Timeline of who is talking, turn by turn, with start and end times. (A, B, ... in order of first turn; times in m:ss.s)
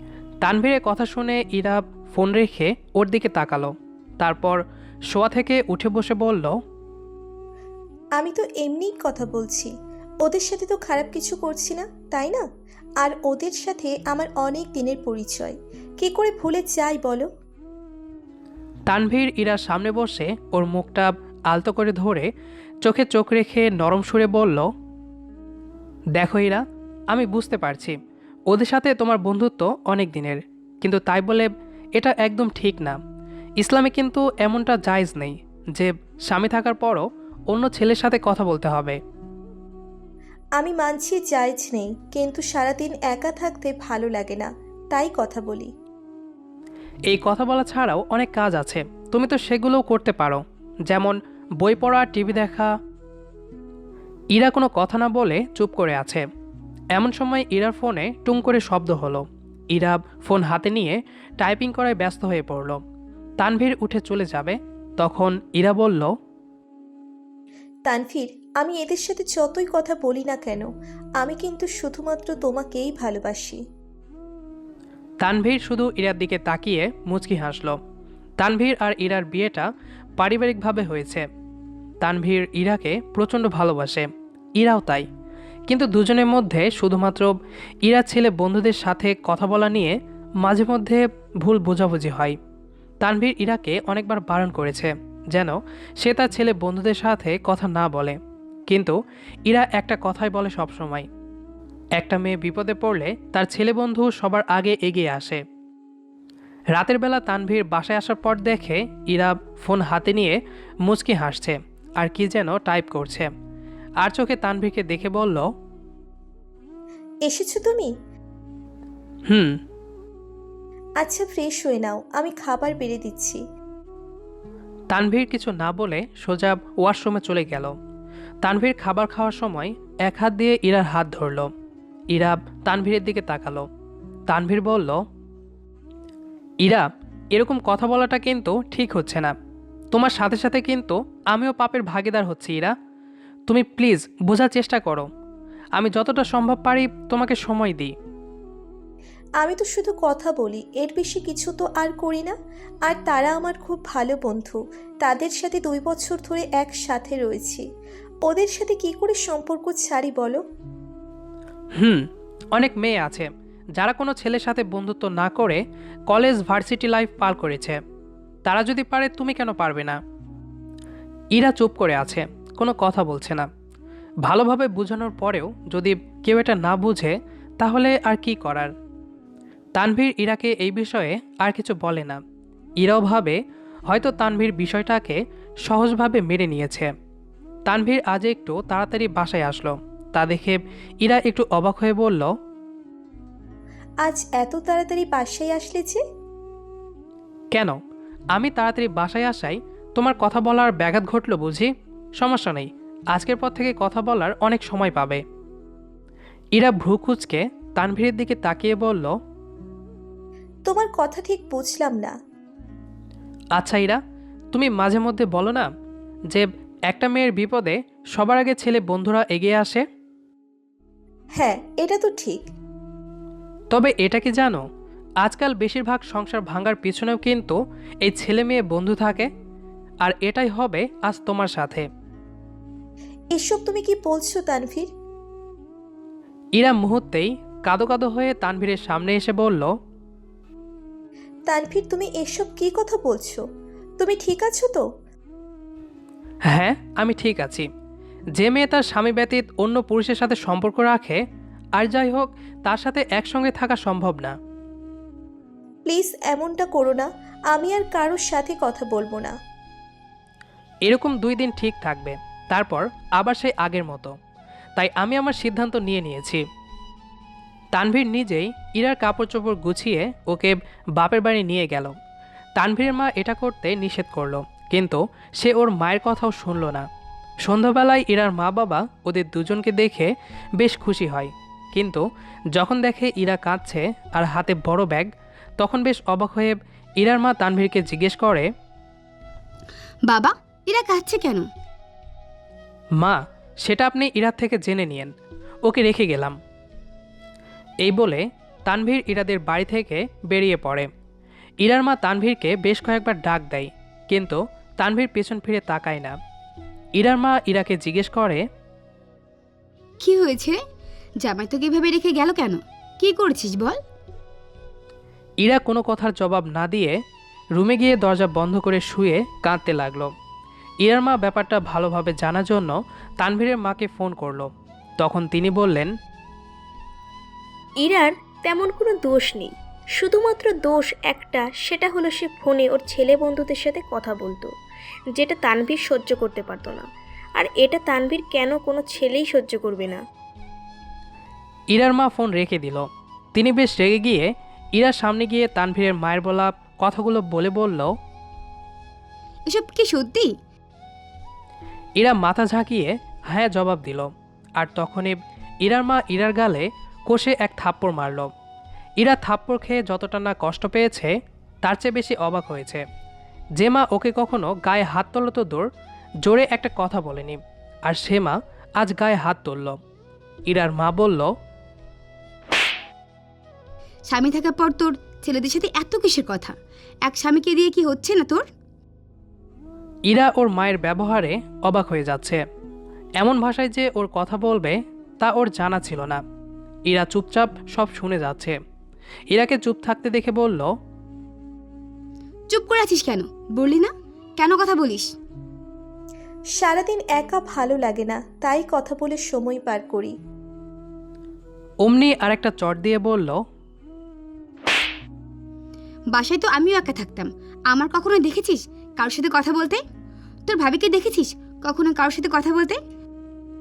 0:00.4-0:04.6 A
0:05.1-0:06.5 A
0:08.2-0:09.7 B
0:10.2-0:12.4 B
0:13.0-0:17.3 B
0:18.9-0:22.3 A
0:22.8-0:24.7 A
0:26.2-0:27.9 A
0:28.5-0:33.0 A
0:33.6-0:39.0 A
0:40.6-0:45.7 B
0:47.1-0:52.7 A
0:54.3-0:56.2 A
0:56.9-1:02.8 A
1:03.4-1:06.1 A
1:07.8-1:13.6 B
1:15.2-1:17.8 A
1:18.4-1:19.6 A
1:20.2-1:21.2 A
1:22.0-1:25.1 A
1:25.7-1:32.4 A
1:33.0-1:38.2 A
1:38.7-1:38.9 A
1:39.5-1:41.1 A
1:42.0-1:45.4 A
1:46.7-1:53.3 A
1:54.0-1:55.5 A
1:57.2-1:57.9 B
1:59.3-1:59.6 A
2:01.0-2:03.4 B
2:04.9-2:07.7 A
2:08.4-2:11.5 A
2:12.1-2:13.7 A
2:14.3-2:15.0 A
2:16.6-2:19.3 A
2:19.9-2:22.7 A
2:23.5-2:25.1 A
2:25.8-2:27.9 A
2:29.4-2:32.3 B
2:32.8-2:37.6 B
2:38.2-2:40.4 B
2:41.8-2:47.8 A
2:48.4-2:50.0 A
2:51.3-2:53.5 A
2:54.2-2:58.7 A
2:59.8-3:02.2 A
3:02.8-3:06.9 A
3:07.7-3:12.3 A
3:14.0-3:16.0 B
3:17.5-3:17.8 A
3:18.3-3:25.2 A
3:26.5-3:29.1 A
3:30.6-3:32.1 B
3:33.6-3:34.0 A
3:34.5-3:35.7 A
3:36.3-3:39.8 A
3:41.4-3:42.5 B
3:43.7-3:44.6 A
3:45.2-3:49.3 A
3:50.0-3:51.9 A
3:53.3-3:54.9 B
3:56.6-3:59.7 A
4:01.5-4:03.4 B
4:04.0-4:04.8 B
4:06.5-4:07.7 A
4:08.4-4:11.2 A
4:11.8-4:14.3 A
4:15.8-4:19.3 B
4:20.8-4:24.1 A
4:24.8-4:26.4 A
4:27.7-4:31.9 A
4:32.6-4:36.8 A
4:37.4-4:48.5 A
4:50.1-4:51.5 C
4:53.0-4:55.1 A
4:55.6-4:56.4 A
4:57.8-5:00.9 A
5:01.6-5:06.2 A
5:07.0-5:08.4 A
5:10.0-5:10.6 C
5:11.2-5:13.8 C
5:15.4-5:17.0 A
5:17.6-5:20.1 A
5:20.8-5:25.9 A
5:27.8-5:34.5 D
5:35.1-5:40.0 D
5:41.7-5:47.9 A
5:49.5-5:50.3 C
5:52.0-5:58.3 A
5:59.0-6:01.1 A
6:01.6-6:02.8 A
6:03.6-6:05.6 A
6:06.2-6:09.8 A
6:10.5-6:11.3 A
6:14.1-6:18.4 C
6:20.1-6:22.4 A
6:23.2-6:26.2 A
6:26.9-6:28.6 A
6:29.3-6:30.7 A
6:32.5-6:35.1 C
6:36.5-6:40.1 B
6:41.8-6:43.4 A
6:46.1-6:49.8 C
6:50.5-6:52.8 C